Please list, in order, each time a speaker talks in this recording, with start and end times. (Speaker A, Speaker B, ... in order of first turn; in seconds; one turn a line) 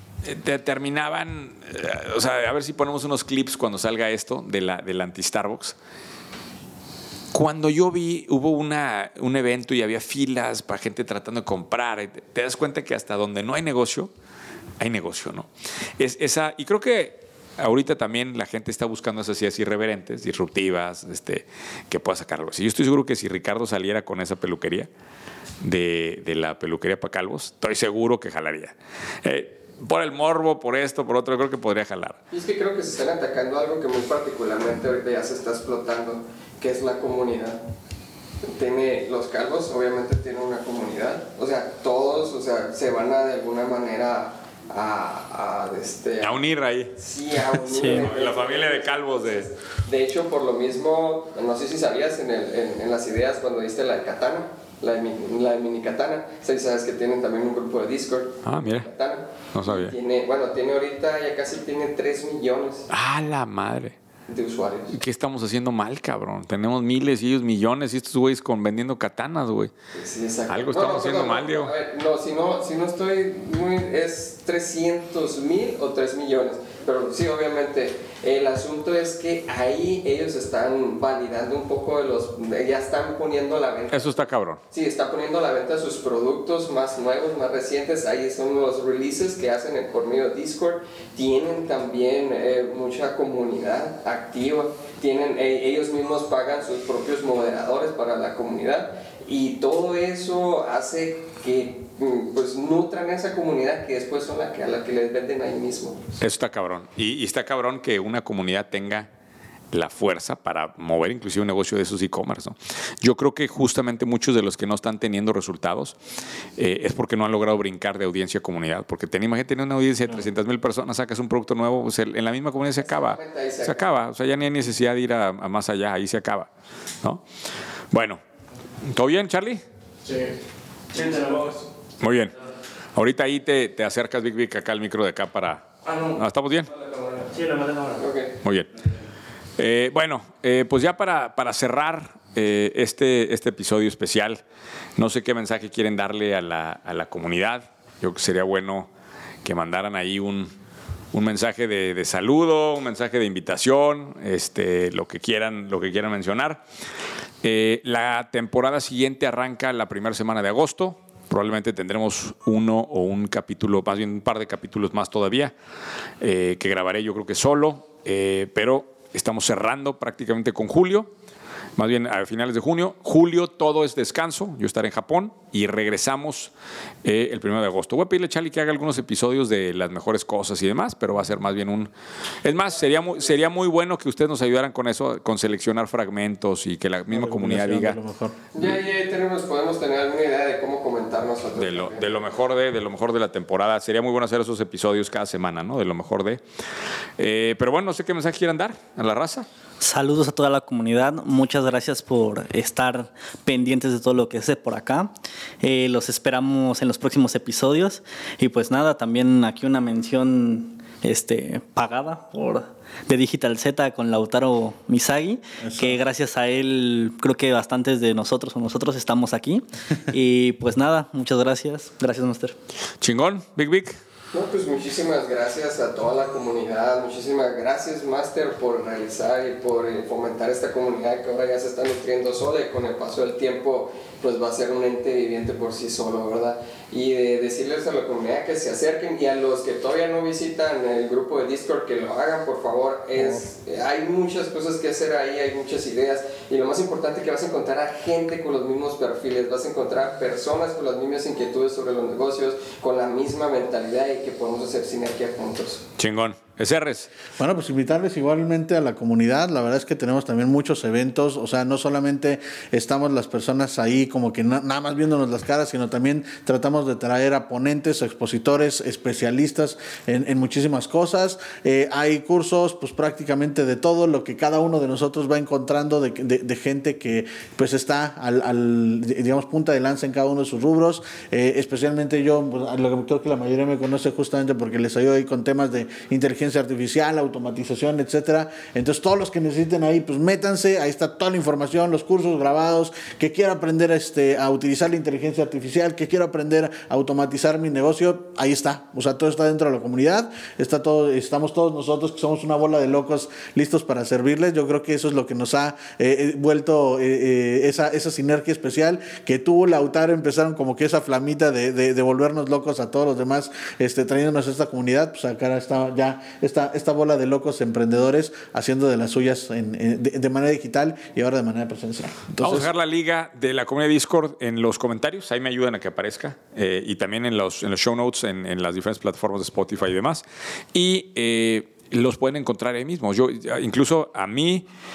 Speaker A: 0.2-5.8
Speaker A: 7.3-14.1
Speaker A: 14.8-24.9
Speaker A: 25.6-32.2
Speaker B: 32.3-37.6
Speaker B: 38.5-46.4
Speaker A: 46.2-46.9
Speaker B: 46.9-62.9
Speaker A: 47.5-49.5
Speaker C: 47.7-48.0
Speaker A: 58.4-58.9
Speaker A: 59.5-59.9
Speaker A: 62.9-64.0
Speaker B: 64.3-65.0
Speaker A: 64.9-69.7
Speaker B: 69.9-106.0
Speaker A: 70.5-71.7
Speaker A: 83.9-84.6
Speaker A: 106.2-109.1
Speaker A: 109.7-116.0
Speaker A: 116.6-126.5
Speaker B: 122.8-123.9
Speaker A: 127.9-128.2
Speaker A: 128.8-129.6
Speaker D: 130.1-130.3
Speaker D: 130.9-131.7
Speaker A: 132.0-132.3
Speaker A: 132.9-136.7
Speaker D: 135.9-136.2
Speaker D: 136.8-138.0
Speaker B: 138.0-138.3
Speaker A: 138.4-138.7
Speaker A: 139.6-144.4
Speaker A: 145.0-148.9
Speaker A: 149.4-150.5
Speaker A: 151.1-156.6
Speaker A: 157.4-165.5
Speaker A: 166.2-171.1
Speaker A: 171.8-176.5
Speaker A: 177.0-181.9
Speaker A: 182.4-188.0
Speaker E: 187.1-188.3
Speaker B: 188.5-192.1
Speaker A: 191.6-196.4
Speaker A: 197.2-199.5
Speaker C: 199.8-205.1
Speaker C: 205.6-222.6
Speaker E: 215.6-215.9
Speaker A: 223.0-224.0
Speaker B: 224.3-255.8
Speaker A: 256.0-257.1
Speaker E: 257.4-322.7
Speaker A: 322.4-334.6